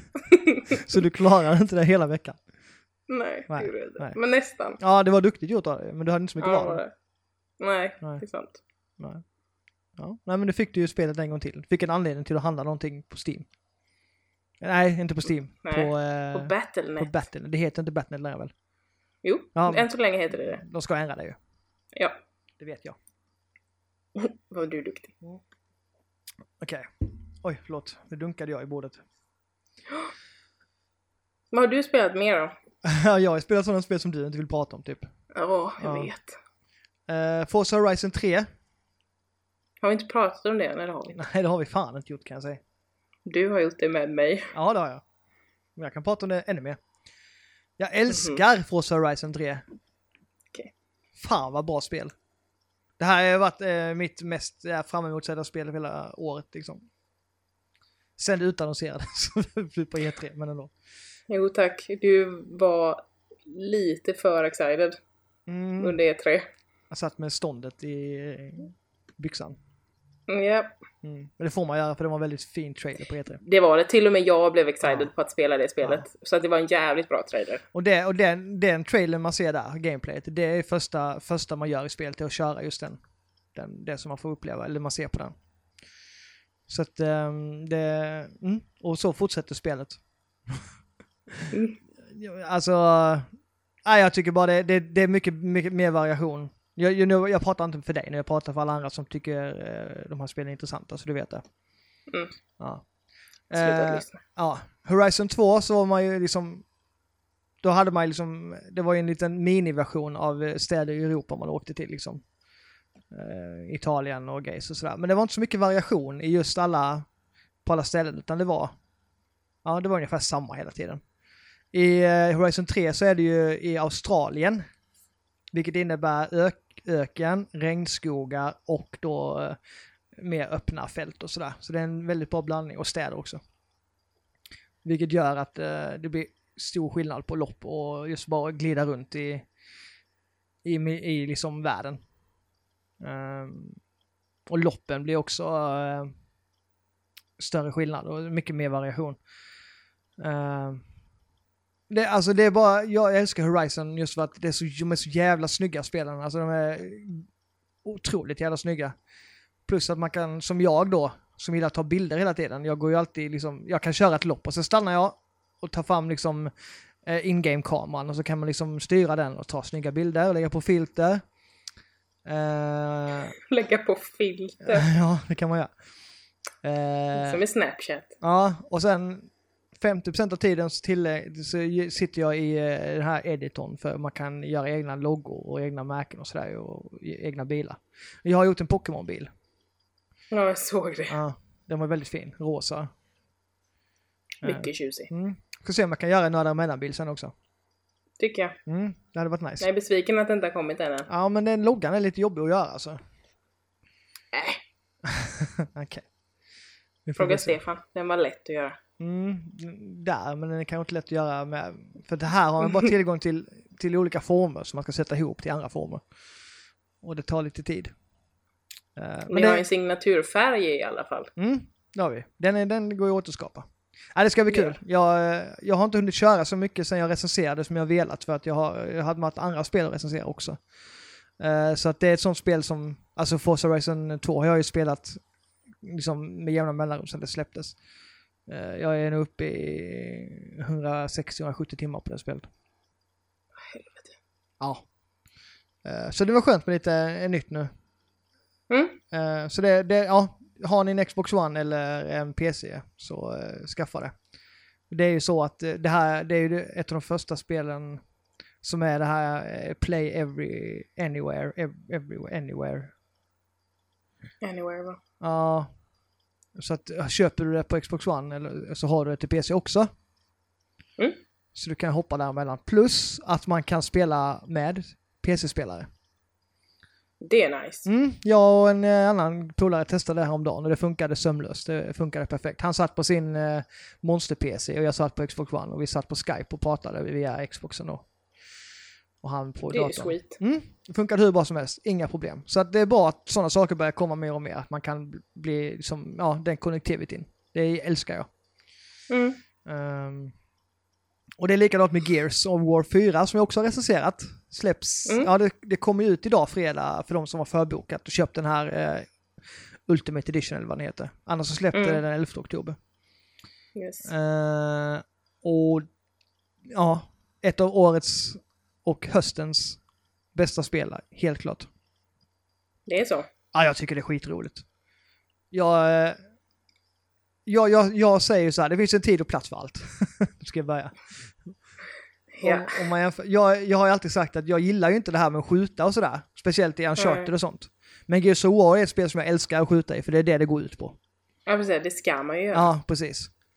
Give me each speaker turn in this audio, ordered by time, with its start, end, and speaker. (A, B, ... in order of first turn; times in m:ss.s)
0:00.3-0:00.8 A
0:00.7-0:02.4 B
0:03.1-0:04.8 A
0:03.5-0:04.2 B
0:04.8-0:06.8 B
0:06.4-0:06.9 A
0:07.6-0:08.6 A
0:10.0-0:13.5 B
0:14.6-0:18.5 B
0:15.6-0:17.1 A
0:19.2-0:20.6 A
0:19.5-0:21.4 B
0:22.6-0:23.0 B
0:24.2-0:25.1 A
0:26.6-0:29.0 B
0:31.5-0:32.5 A
0:32.8-0:35.1 B
0:35.3-0:36.4 A
0:35.8-0:36.1 B
0:37.1-0:38.5 B
0:39.8-0:41.2 A
0:41.1-0:42.6 B
0:43.2-0:44.5 A
0:44.5-0:45.0 B
0:45.8-0:46.8 B
0:47.8-0:49.6 B
0:48.1-0:48.4 A
0:51.2-0:52.1 B
0:53.0-0:56.8 B
0:58.2-1:00.7 B
1:01.3-1:05.0 A
1:05.5-1:06.0 B
1:05.8-1:06.5 A
1:06.9-1:09.6 B
1:10.3-1:10.7 A
1:11.0-1:13.4 B
1:13.4-1:17.6 A
1:14.8-1:15.1 B
1:17.7-1:23.0 B
1:23.5-1:25.3 B
1:26.7-1:30.0 B
1:32.1-1:33.3 B
1:33.8-1:41.4 B
1:42.6-1:42.8 B
1:43.5-1:46.6 B
1:43.5-1:44.2 A
1:47.6-1:52.2 B
1:53.1-1:57.0 B
1:57.6-1:58.7 B
1:59.6-2:01.0 B
2:01.7-2:04.6 B
2:05.5-2:09.6 B
2:10.1-2:13.4 B
2:14.8-2:19.4 B
2:20.6-2:22.0 B
2:23.0-2:23.8 B
2:24.5-2:26.1 B
2:27.4-2:29.2 B
2:30.2-2:30.8 B
2:31.9-2:37.2 B
2:37.8-2:38.9 B
2:39.7-2:46.5 B
2:47.0-2:51.2 B
2:52.2-2:53.3 B
2:53.4-2:54.9 A
2:54.6-2:55.7 B
2:56.6-2:57.4 B
2:57.1-2:58.1 A
2:58.2-3:09.3 B
3:10.3-3:11.2 A
3:11.1-3:12.9 B
3:14.4-3:15.1 A
3:14.4-3:17.3 B
3:18.2-3:18.6 A
3:18.6-3:19.7 B
3:19.6-3:21.1 A
3:21.1-3:23.0 B
3:24.3-3:24.6 A
3:25.0-3:26.0 B
3:27.0-3:27.6 B
3:27.2-3:28.8 A
3:29.0-3:36.0 B
3:37.0-3:37.9 B
3:39.0-3:39.6 B
3:39.3-3:41.3 A
3:41.4-3:50.6 B
3:44.5-3:44.7 A
3:51.4-3:55.2 B
3:55.8-3:57.8 B
3:58.5-4:02.5 B
4:03.7-4:04.1 A
4:04.6-4:04.8 B
4:05.8-4:07.7 B
4:08.7-4:09.0 A
4:09.1-4:14.1 B
4:14.9-4:18.0 B
4:18.6-4:22.9 B
4:24.4-4:25.0 A
4:25.2-4:25.7 B
4:26.6-4:29.9 B
4:31.5-4:35.9 B
4:37.2-4:37.9 A
4:37.8-4:48.0 B
4:49.2-4:58.3 B
4:49.7-4:50.4 A
4:59.1-4:59.4 A
4:59.6-5:00.3 B
5:01.4-5:09.1 B
5:09.9-5:12.8 B
5:11.7-5:12.0 A
5:13.8-5:14.1 A
5:14.0-5:15.9 B
5:16.7-5:19.8 B
5:20.3-5:21.7 B
5:22.9-5:23.3 A
5:23.5-5:24.6 B
5:25.5-5:26.2 B
5:27.4-5:31.5 B
5:32.3-5:32.8 A
5:32.4-5:41.0 B
5:37.0-5:37.3 A
5:41.5-5:42.7 A
5:42.5-5:43.3 B